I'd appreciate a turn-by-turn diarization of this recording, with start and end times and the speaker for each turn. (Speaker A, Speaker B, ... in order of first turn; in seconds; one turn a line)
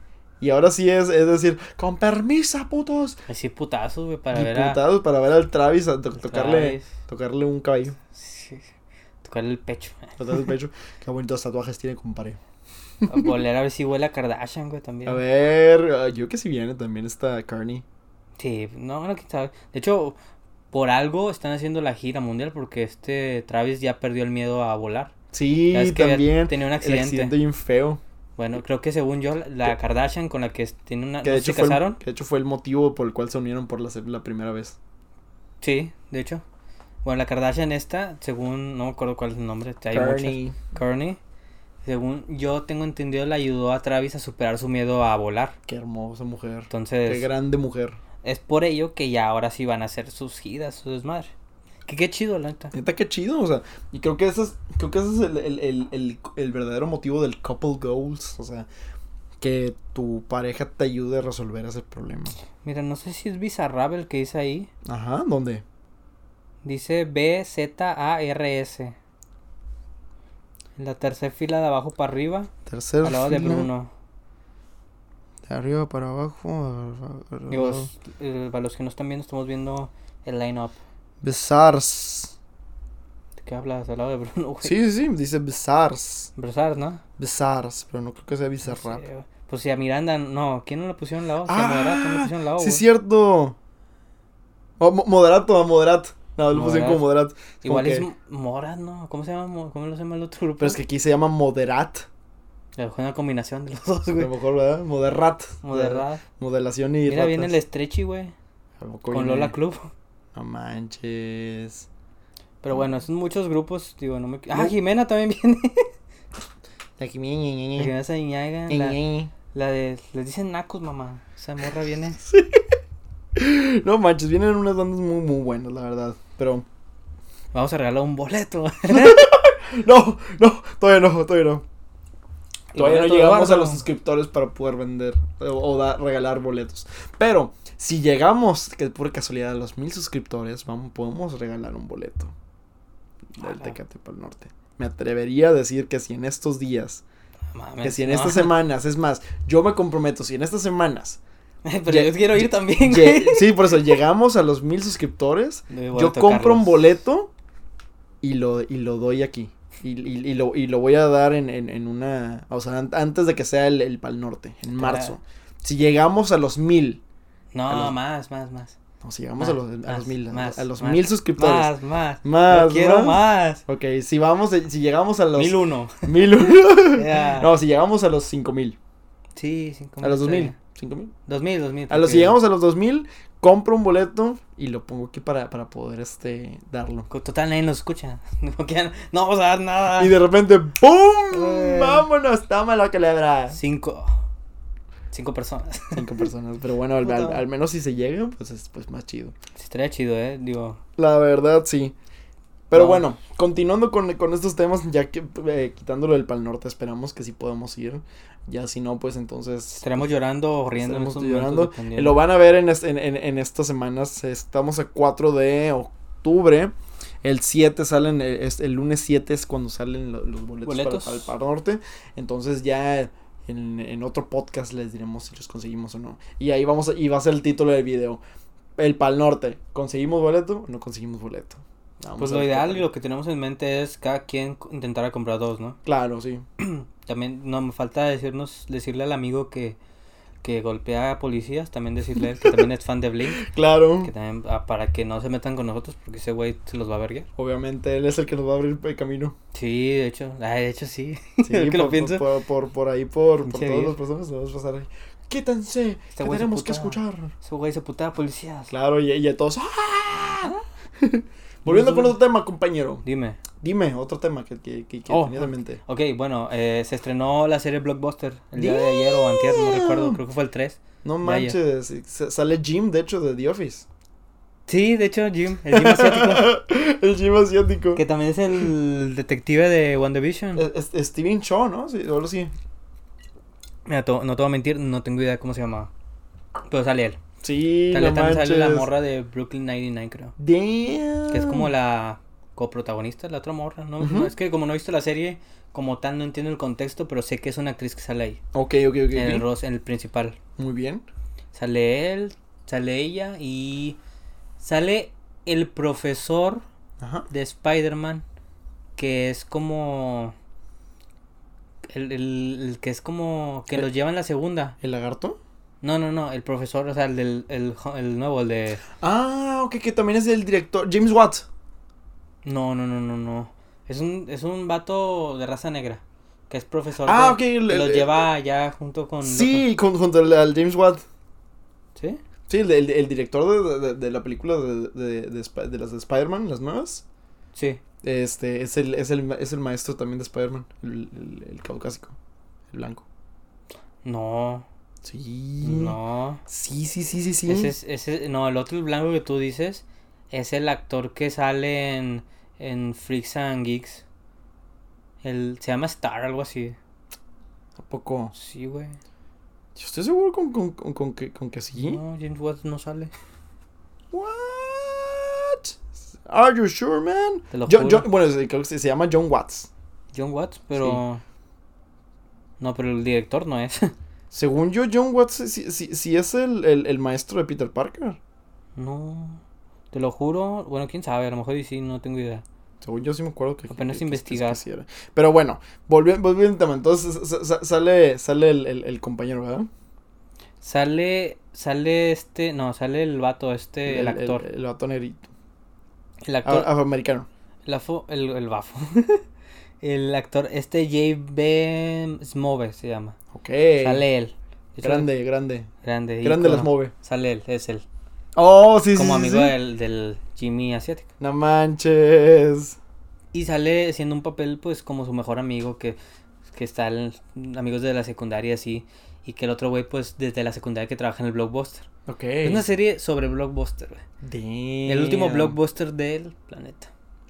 Speaker A: 0.4-3.2
Speaker B: 3.3-4.8
Speaker A: 4.3-8.0
Speaker B: 6.2-6.9
Speaker B: 8.1-8.7
Speaker B: 9.2-10.2
Speaker A: 10.2-12.4
Speaker B: 13.1-15.2
Speaker A: 15.1-17.8
Speaker B: 18.4-20.1
Speaker B: 20.7-25.1
Speaker A: 25.3-28.0
Speaker B: 25.7-27.3
Speaker B: 28.4-32.0
Speaker A: 31.2-34.8
Speaker B: 35.6-36.4
Speaker B: 37.0-41.2
Speaker A: 39.9-40.6
Speaker B: 41.8-45.5
Speaker A: 45.7-48.0
Speaker B: 46.7-47.3
Speaker B: 48.2-51.3
Speaker B: 51.9-52.7
Speaker A: 52.7-58.7
Speaker A: 59.4-62.4
Speaker B: 62.6-64.7
Speaker A: 64.8-65.6
Speaker B: 66.6-69.0
Speaker B: 70.8-72.5
Speaker A: 72.7-73.7
Speaker B: 73.0-73.9
Speaker A: 75.5-77.9
Speaker B: 77.5-80.8
Speaker A: 81.2-82.3
Speaker B: 83.4-84.8
Speaker A: 84.6-86.3
Speaker B: 86.4-87.0
Speaker A: 87.2-89.0
Speaker B: 88.6-92.8
Speaker A: 91.5-93.5
Speaker A: 94.8-98.1
Speaker B: 96.5-97.0
Speaker B: 97.6-100.8
Speaker A: 100.6-102.1
Speaker B: 102.8-104.3
Speaker A: 104.2-107.5
Speaker B: 105.6-106.2
Speaker B: 107.1-108.3
Speaker A: 108.8-109.5
Speaker B: 109.1-109.9
Speaker A: 110.3-111.9
Speaker B: 112.6-115.9
Speaker A: 117.0-117.9
Speaker B: 117.8-119.0
Speaker A: 118.7-119.3
Speaker B: 119.5-122.2
Speaker A: 122.2-122.6
Speaker A: 123.3-126.7
Speaker B: 127.5-129.3
Speaker A: 128.9-131.6
Speaker B: 132.7-133.8
Speaker A: 132.7-142.3
Speaker B: 143.4-143.7
Speaker A: 143.4-147.0
Speaker B: 147.5-148.6
Speaker A: 147.8-151.2
Speaker B: 151.6-154.0
Speaker A: 151.9-157.3
Speaker B: 155.7-156.9
Speaker A: 158.2-167.0
Speaker B: 164.8-165.2
Speaker B: 167.5-168.8
Speaker A: 167.7-167.9
Speaker A: 169.0-171.7
Speaker B: 169.4-173.6
Speaker A: 172.2-178.8
Speaker B: 175.3-176.4
Speaker B: 176.9-177.5
Speaker B: 179.3-180.6
Speaker A: 180.0-181.1
Speaker B: 181.3-182.4
Speaker A: 181.9-187.1
Speaker B: 187.1-190.2
Speaker A: 189.9-193.6
Speaker B: 191.3-192.1
Speaker B: 193.5-194.2
Speaker B: 195.1-196.1
Speaker A: 195.9-199.3
Speaker B: 197.0-197.4
Speaker B: 199.6-200.8
Speaker A: 201.0-201.9
Speaker A: 202.7-210.0
Speaker B: 202.7-203.1
Speaker B: 209.8-212.2
Speaker A: 210.7-228.2
Speaker B: 220.6-221.3
Speaker A: 228.8-232.9
Speaker B: 232.2-235.8
Speaker A: 235.8-236.4
Speaker B: 236.6-239.8
Speaker B: 240.4-243.4
Speaker A: 242.2-242.6
Speaker A: 243.3-244.1
Speaker B: 244.0-247.3
Speaker A: 247.4-249.3
Speaker B: 249.5-252.2
Speaker A: 251.4-257.3
Speaker B: 253.4-254.0
Speaker B: 256.1-258.7
Speaker A: 258.7-263.0
Speaker B: 261.6-262.2
Speaker B: 263.0-263.4
Speaker A: 263.6-265.8
Speaker B: 265.1-271.6
Speaker A: 268.6-270.2
Speaker A: 271.0-273.9
Speaker B: 274.7-276.5
Speaker A: 275.7-278.0
Speaker B: 277.9-280.6
Speaker A: 280.6-282.5
Speaker B: 283.9-285.9
Speaker B: 286.7-287.2
Speaker A: 287.4-288.9
Speaker B: 287.9-290.3
Speaker A: 290.4-291.7
Speaker B: 291.3-298.4
Speaker A: 294.0-294.3
Speaker A: 298.5-299.4
Speaker B: 299.1-300.4
Speaker A: 300.6-301.0
Speaker B: 301.5-304.0
Speaker B: 304.6-306.6
Speaker A: 307.0-307.3
Speaker B: 307.3-308.2
Speaker B: 309.0-310.3
Speaker B: 311.8-314.8
Speaker A: 314.8-315.4
Speaker B: 315.8-318.8
Speaker A: 319.0-321.4
Speaker B: 322.4-329.6
Speaker A: 327.0-328.2
Speaker A: 329.2-331.0
Speaker B: 331.9-332.2
Speaker A: 332.5-337.0
Speaker B: 337.5-337.8
Speaker A: 338.0-342.1
Speaker A: 342.7-343.1
Speaker B: 344.0-344.6
Speaker A: 345.0-347.7
Speaker B: 345.6-346.4
Speaker B: 347.5-354.0
Speaker B: 355.2-356.8
Speaker A: 357.8-358.3
Speaker B: 358.3-359.0
Speaker A: 359.8-362.0
Speaker B: 361.7-363.1
Speaker A: 364.1-369.7
Speaker B: 367.5-368.1
Speaker B: 370.1-371.2
Speaker A: 370.7-371.0
Speaker B: 372.6-373.9
Speaker A: 374.3-378.2
Speaker B: 378.8-379.4
Speaker B: 379.9-382.4
Speaker A: 382.8-389.7
Speaker B: 383.7-384.6
Speaker B: 390.6-394.4
Speaker A: 393.9-395.3
Speaker B: 396.2-396.7
Speaker A: 396.4-397.3
Speaker B: 397.6-399.2
Speaker B: 399.8-403.1
Speaker A: 403.3-404.0
Speaker B: 403.8-405.1
Speaker A: 404.8-405.7
Speaker B: 405.8-407.9
Speaker A: 406.2-406.9
Speaker A: 408.3-409.5
Speaker B: 408.9-411.1
Speaker A: 411.2-412.8
Speaker B: 413.3-416.0
Speaker B: 416.5-421.9
Speaker A: 422.1-422.6
Speaker B: 422.4-424.0
Speaker A: 424.2-425.6
Speaker B: 424.9-426.9